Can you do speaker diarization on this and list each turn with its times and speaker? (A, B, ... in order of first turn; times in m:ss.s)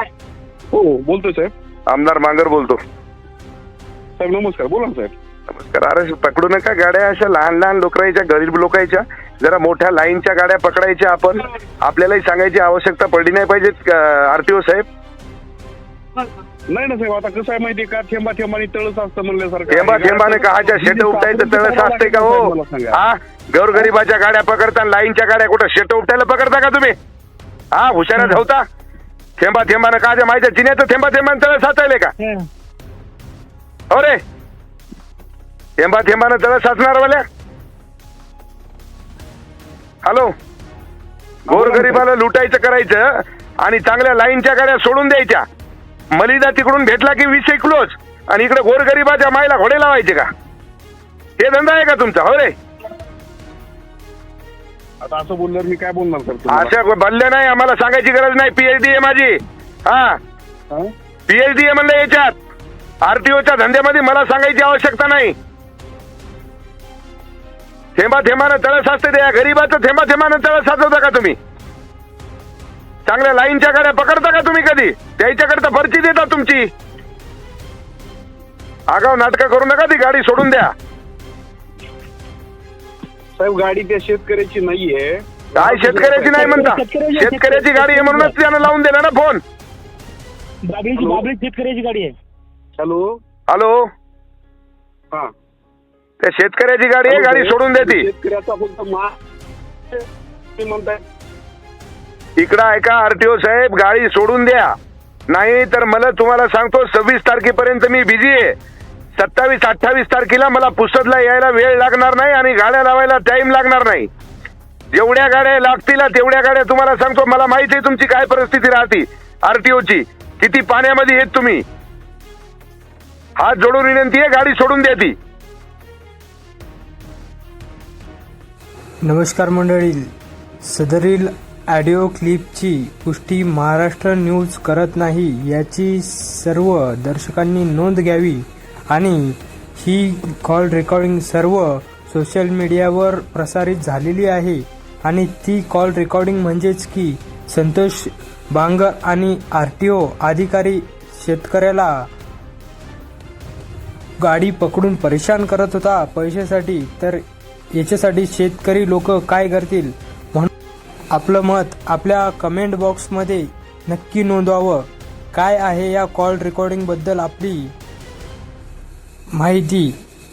0:00.7-0:01.5 A
0:01.9-0:02.8 B
0:04.2-0:05.1 A
0:05.5-0:14.8 B
0:16.7-0:23.0 A
0:19.7-0:26.9 B
0:27.7-0:28.6 B
0:29.4-0:32.1 B
0:32.2-0:32.5 C
0:33.9-0:34.2 B
0:35.8-0:37.2 B
0:40.0-0:40.3 B
0:41.5-0:45.4 B
0:41.5-0:42.0 A
0:46.2-0:50.3 B
0:51.4-0:52.5 B
0:55.0-0:56.7 A
0:56.5-1:00.2 B
1:01.3-1:02.4 B
1:03.0-1:05.4 B
1:08.0-1:11.4 B
1:13.1-1:16.7 B
1:18.9-1:20.7 B
1:23.4-1:26.7 A
1:25.6-1:29.4 B
1:26.3-1:28.3 C
1:30.7-1:32.1 C
1:31.0-1:31.3 A
1:32.8-1:33.2 A
1:33.5-1:33.8 B
1:36.2-1:38.1 B
1:37.1-1:39.1 A
1:40.6-1:41.0 A
1:42.4-1:44.7 B
1:45.3-1:48.5 B
1:49.2-1:54.1 B
1:54.9-2:01.6 B
2:03.4-2:05.1 B
2:09.0-2:10.1 D
2:10.6-2:32.1 D
2:34.2-2:37.2 D
2:37.7-2:40.5 D
2:41.1-2:47.7 D
2:49.4-2:50.0 D